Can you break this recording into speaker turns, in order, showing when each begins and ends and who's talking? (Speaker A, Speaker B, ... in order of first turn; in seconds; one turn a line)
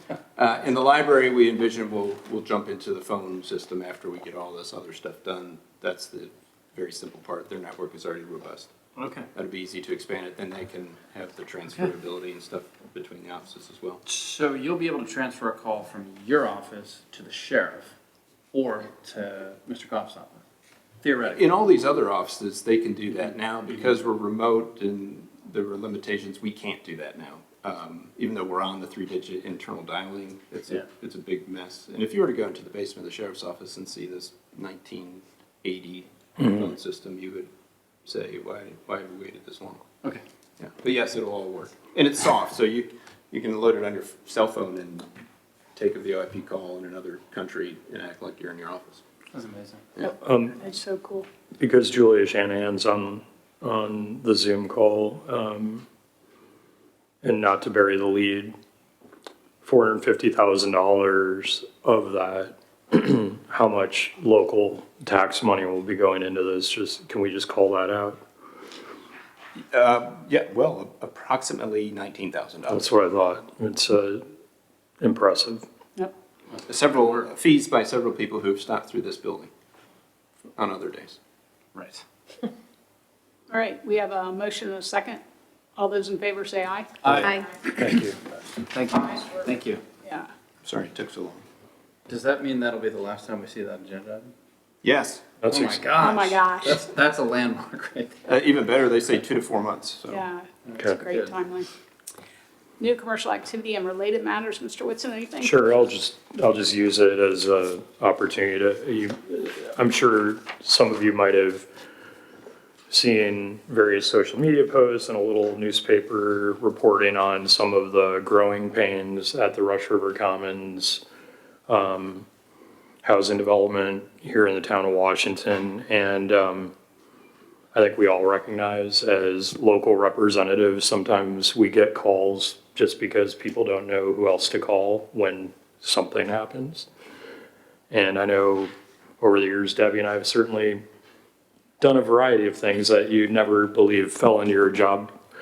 Speaker A: 0.3-8.7
Speaker B: 9.0-9.3
Speaker A: 9.3-14.0
Speaker B: 14.1-17.9
Speaker B: 18.5-20.4
Speaker B: 21.0-21.5
Speaker A: 21.4-37.5
Speaker A: 38.0-39.9
Speaker A: 40.6-45.1
Speaker A: 45.8-49.0
Speaker B: 49.3-49.9
Speaker C: 50.0-51.3
Speaker D: 50.2-50.6
Speaker D: 51.6-55.9
Speaker D: 57.2-58.5
Speaker D: 59.6-68.2
Speaker A: 69.7-72.9
Speaker D: 72.7-74.2
Speaker D: 75.0-75.7
Speaker A: 76.6-79.5
Speaker A: 80.6-81.2
Speaker B: 81.7-82.0
Speaker C: 83.5-85.2
Speaker C: 85.8-87.2
Speaker B: 87.0-88.0
Speaker D: 87.8-88.1
Speaker B: 88.6-89.8
Speaker C: 90.0-90.3
Speaker A: 90.6-91.4
Speaker B: 92.1-94.3
Speaker A: 94.8-95.3
Speaker D: 95.4-95.8
Speaker B: 95.4-98.2
Speaker C: 96.0-96.8
Speaker A: 98.3-100.2
Speaker C: 100.1-101.7
Speaker B: 100.7-101.3
Speaker D: 100.8-101.0
Speaker C: 102.8-105.7
Speaker D: 105.4-111.7
Speaker D: 112.9-121.0
Speaker D: 121.7-122.3
Speaker D: 123.0-126.7
Speaker D: 127.7-136.9
Speaker D: 137.9-138.7
Speaker D: 139.2-140.8
Speaker D: 141.8-145.1